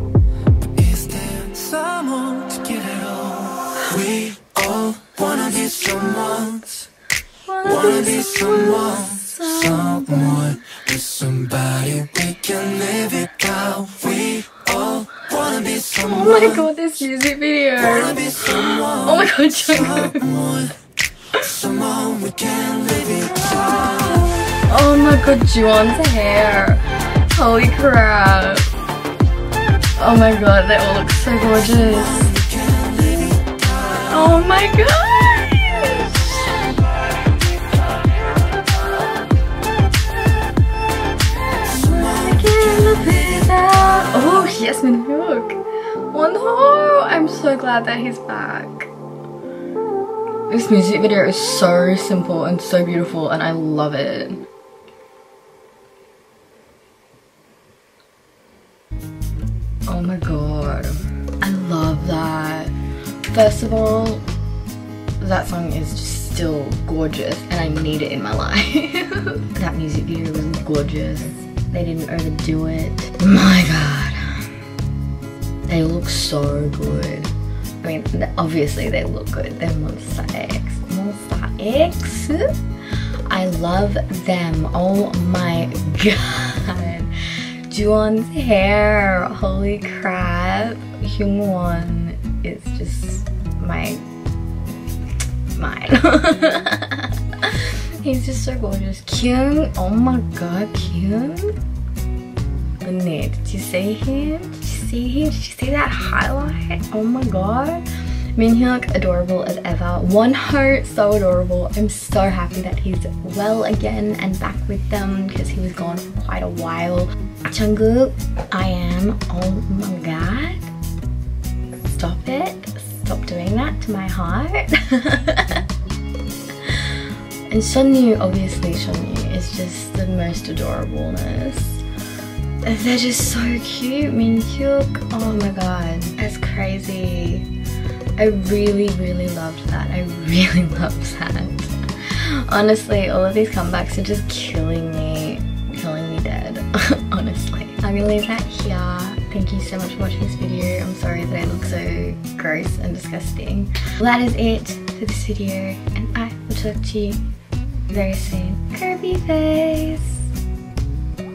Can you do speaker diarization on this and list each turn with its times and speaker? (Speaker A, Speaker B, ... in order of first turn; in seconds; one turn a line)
Speaker A: 0.6-6.8
Speaker B: 7.5-10.6
Speaker A: 7.7-16.6
Speaker B: 16.0-20.3
Speaker A: 17.8-20.8
Speaker A: 21.4-24.4
Speaker B: 24.4-28.7
Speaker B: 30.0-32.3
Speaker A: 31.7-34.1
Speaker B: 34.1-36.6
Speaker B: 41.7-48.9
Speaker A: 41.8-43.5
Speaker B: 50.5-54.4
Speaker B: 59.9-62.7
Speaker B: 63.3-64.2
Speaker B: 65.2-74.5
Speaker B: 75.7-77.3
Speaker B: 77.8-82.5
Speaker B: 83.3-87.1
Speaker B: 87.7-94.0
Speaker B: 95.5-101.6
Speaker B: 102.8-120.7
Speaker B: 121.8-125.6
Speaker B: 126.6-127.0
Speaker B: 127.5-131.8
Speaker B: 132.6-137.5
Speaker B: 138.2-157.2
Speaker B: 157.9-160.3